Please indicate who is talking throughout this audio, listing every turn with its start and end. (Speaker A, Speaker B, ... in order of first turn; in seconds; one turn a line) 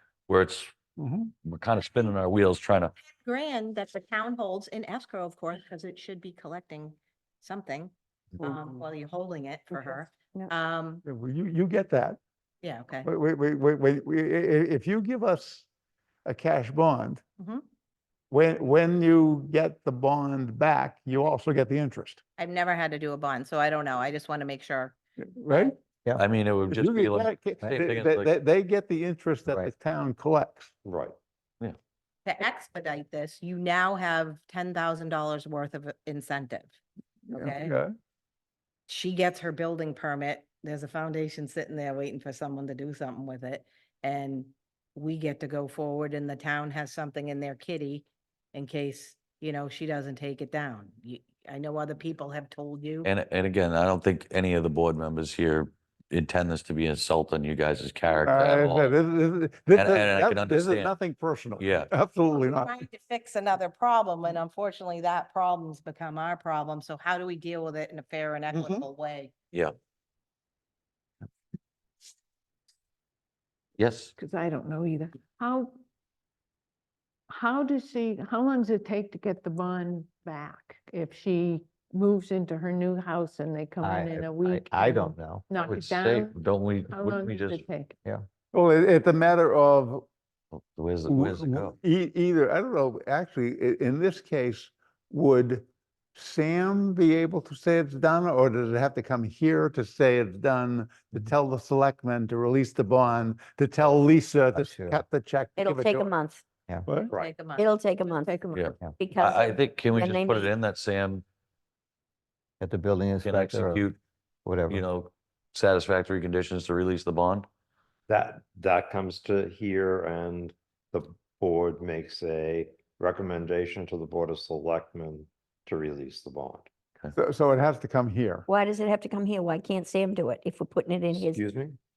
Speaker A: 0.3-0.8
Speaker B: 1.0-1.3
Speaker A: 1.4-2.9
Speaker C: 3.1-7.9
Speaker C: 8.4-11.0
Speaker B: 11.1-12.2
Speaker C: 12.6-13.1
Speaker B: 13.0-15.7
Speaker B: 16.2-17.2
Speaker B: 18.3-22.2
Speaker C: 22.4-24.9
Speaker B: 25.4-25.8
Speaker C: 25.5-25.8
Speaker A: 26.2-28.3
Speaker B: 26.7-30.7
Speaker D: 30.9-31.1
Speaker C: 32.3-36.8
Speaker B: 37.3-37.9
Speaker C: 37.4-37.8
Speaker C: 38.9-53.1
Speaker A: 53.0-59.0
Speaker B: 58.2-62.7
Speaker A: 59.7-60.9
Speaker A: 61.6-61.9
Speaker C: 62.3-69.3
Speaker B: 68.5-68.8
Speaker A: 73.8-74.1
Speaker E: 74.2-75.8
Speaker E: 77.3-86.4
Speaker F: 83.8-86.0
Speaker A: 85.9-87.7
Speaker E: 86.9-88.0
Speaker B: 88.5-90.1
Speaker A: 90.5-91.8
Speaker B: 91.1-106.1
Speaker F: 104.5-105.0
Speaker G: 105.6-106.4
Speaker B: 106.9-107.1
Speaker C: 107.3-107.6
Speaker G: 107.6-110.5
Speaker E: 108.2-108.8
Speaker A: 108.5-111.2
Speaker F: 112.6-113.8
Speaker A: 113.2-114.0
Speaker F: 114.5-114.8
Speaker A: 114.7-117.5
Speaker D: 118.1-126.7
Speaker B: 127.1-128.5
Speaker G: 128.5-131.4
Speaker D: 131.1-131.8